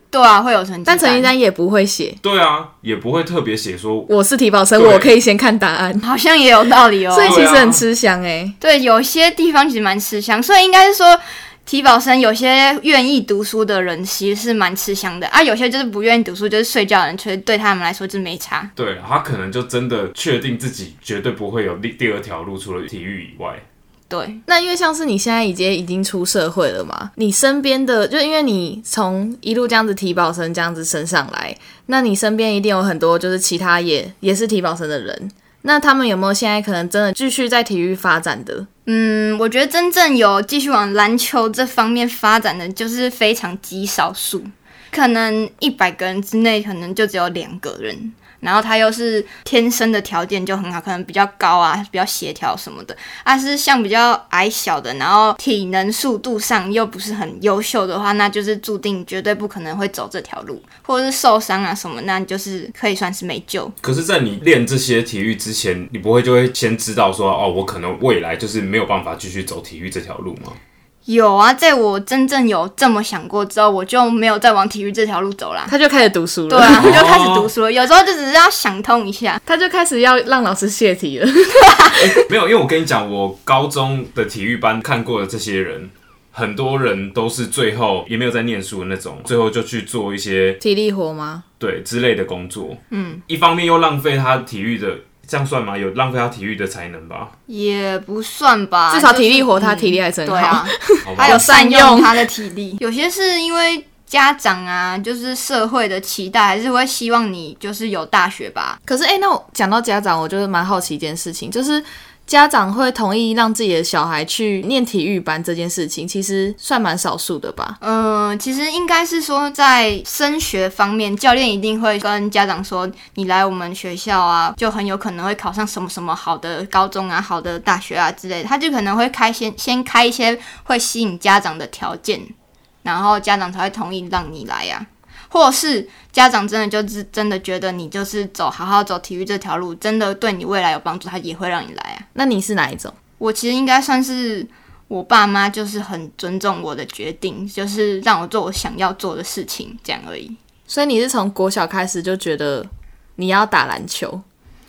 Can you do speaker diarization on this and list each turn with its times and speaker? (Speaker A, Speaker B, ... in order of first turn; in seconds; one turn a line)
Speaker A: 0.1-1.3
Speaker B: 0.9-2.2
Speaker C: 2.2-4.1
Speaker B: 4.1-6.0
Speaker C: 4.7-5.1
Speaker A: 6.0-7.5
Speaker B: 7.1-8.6
Speaker C: 7.2-7.8
Speaker A: 8.6-18.7
Speaker C: 18.8-23.6
Speaker A: 24.1-24.4
Speaker B: 24.5-38.7
Speaker A: 38.9-63.7
Speaker C: 63.8-70.6
Speaker A: 71.1-75.7
Speaker B: 75.7-77.0
Speaker A: 76.5-79.4
Speaker C: 76.7-77.5
Speaker B: 79.4-82.2
Speaker C: 81.9-90.6
Speaker B: 90.6-91.4
Speaker C: 91.6-97.3
Speaker A: 92.9-93.2
Speaker A: 97.5-108.8
Speaker B: 98.9-102.3
Speaker C: 101.0-101.5
Speaker B: 108.9-117.8
Speaker A: 117.8-132.3
Speaker A: 132.8-142.1
Speaker B: 142.2-143.0
Speaker A: 143.2-150.4
Speaker B: 150.7-154.2